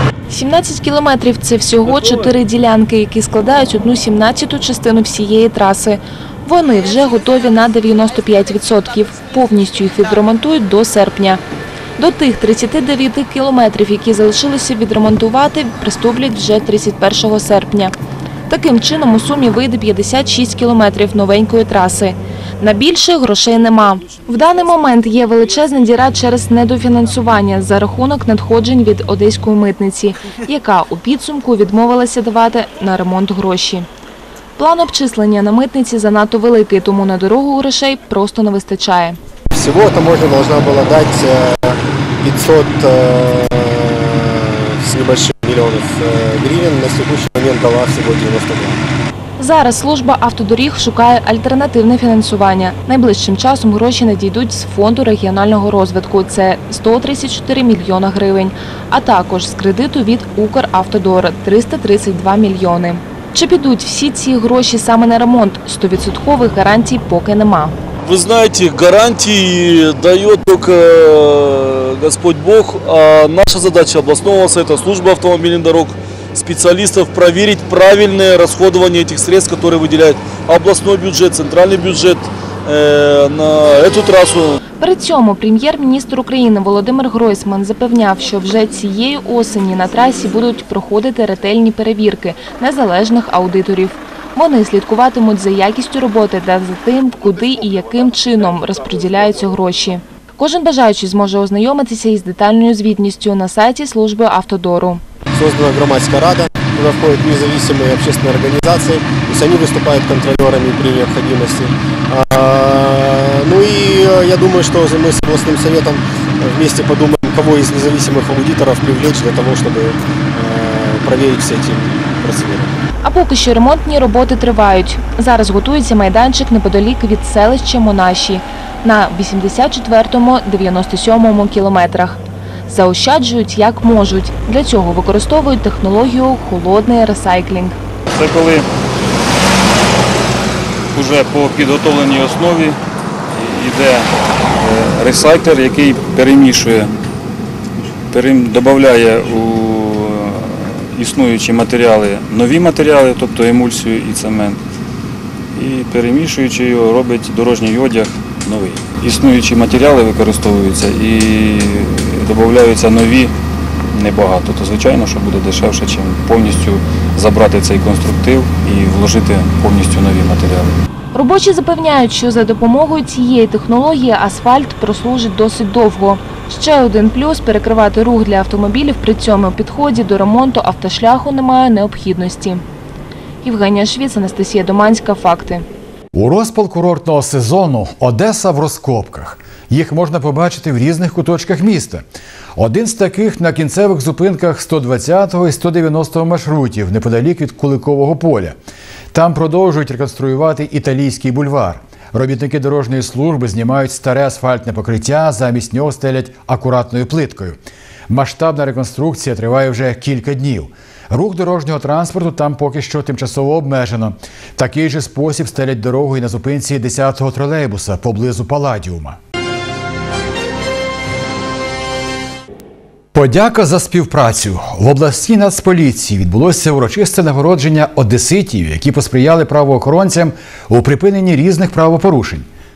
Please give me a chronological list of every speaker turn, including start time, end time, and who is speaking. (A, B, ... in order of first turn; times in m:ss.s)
0:00.3-0:11.4 A
0:12.0-0:17.9 A
0:18.5-0:33.9 A
0:34.6-0:39.2 A
0:39.5-0:48.8 B
0:49.4-1:07.8 A
1:08.0-1:24.6 C
1:24.8-1:45.0 A
1:45.3-2:02.8 B
2:03.0-2:17.8 A
2:18.1-2:18.7 D
2:20.9-2:22.8 D
2:23.3-2:26.9 D
2:28.1-2:34.6 D
2:35.6-2:43.4 D
2:43.9-2:50.8 D
2:51.1-3:02.6 A
3:03.4-3:05.6 A
3:06.1-3:12.0 E
3:12.6-3:18.6 E
3:19.1-3:27.6 E
3:28.1-3:39.2 E
3:43.1-3:52.5 E